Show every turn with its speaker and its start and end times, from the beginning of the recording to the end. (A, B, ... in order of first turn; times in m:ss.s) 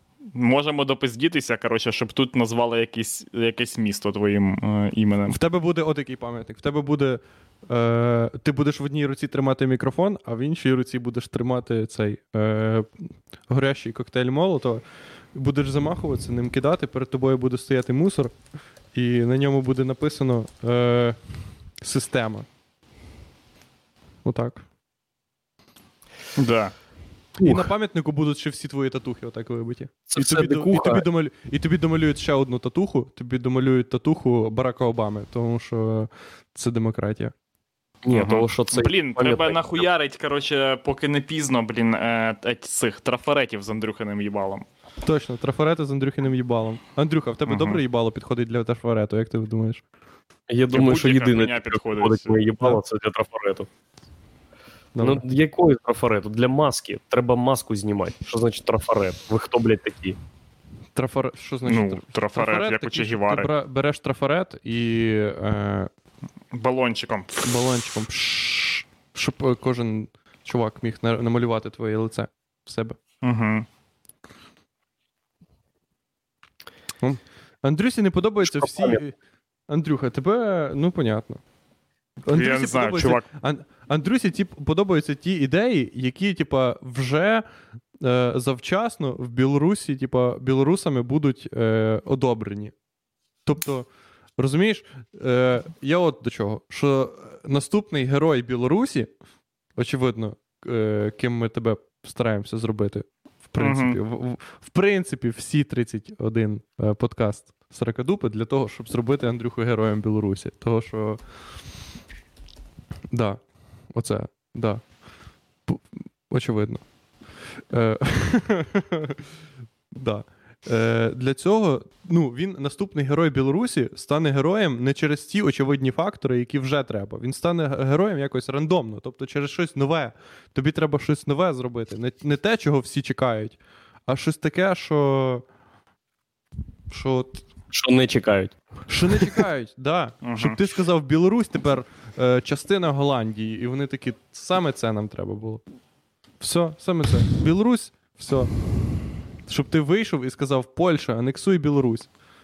0:00.4-0:05.4 A
0:05.3-0:18.4 B
0:18.9-0:22.5 B
0:24.2-0:24.6 B
0:26.4-0:26.7 A
0:27.4-0:27.7 C
0:27.4-0:37.3 B
0:30.1-0:31.1 C
0:38.0-0:39.8 C
0:38.1-0:44.6 A
0:45.0-0:49.8 B
0:47.5-0:47.8 A
0:50.5-0:53.7 C
0:50.7-0:52.5 A
0:55.0-0:55.2 B
0:55.0-1:00.2 C
1:01.0-1:05.9 B
1:01.7-1:03.5 A
1:06.5-1:07.5 A
1:07.4-1:13.0 B
1:13.2-1:13.7 A
1:17.0-1:19.2 B
1:18.4-1:19.0 C
1:19.7-1:21.4 B
1:22.2-1:27.4 B
1:22.3-1:23.2 A
1:28.0-1:32.7 B
1:33.4-1:39.1 B
1:39.8-1:51.2 B
1:43.6-1:44.0 A
1:53.1-1:54.9 B
1:55.7-1:56.8 B
1:57.6-1:59.2 B
1:59.9-2:15.4 B
2:16.9-2:17.5 B
2:17.7-2:18.6 C
2:18.9-2:25.6 B
2:20.2-2:20.6 A
2:26.4-2:28.5 B
2:29.5-2:32.1 B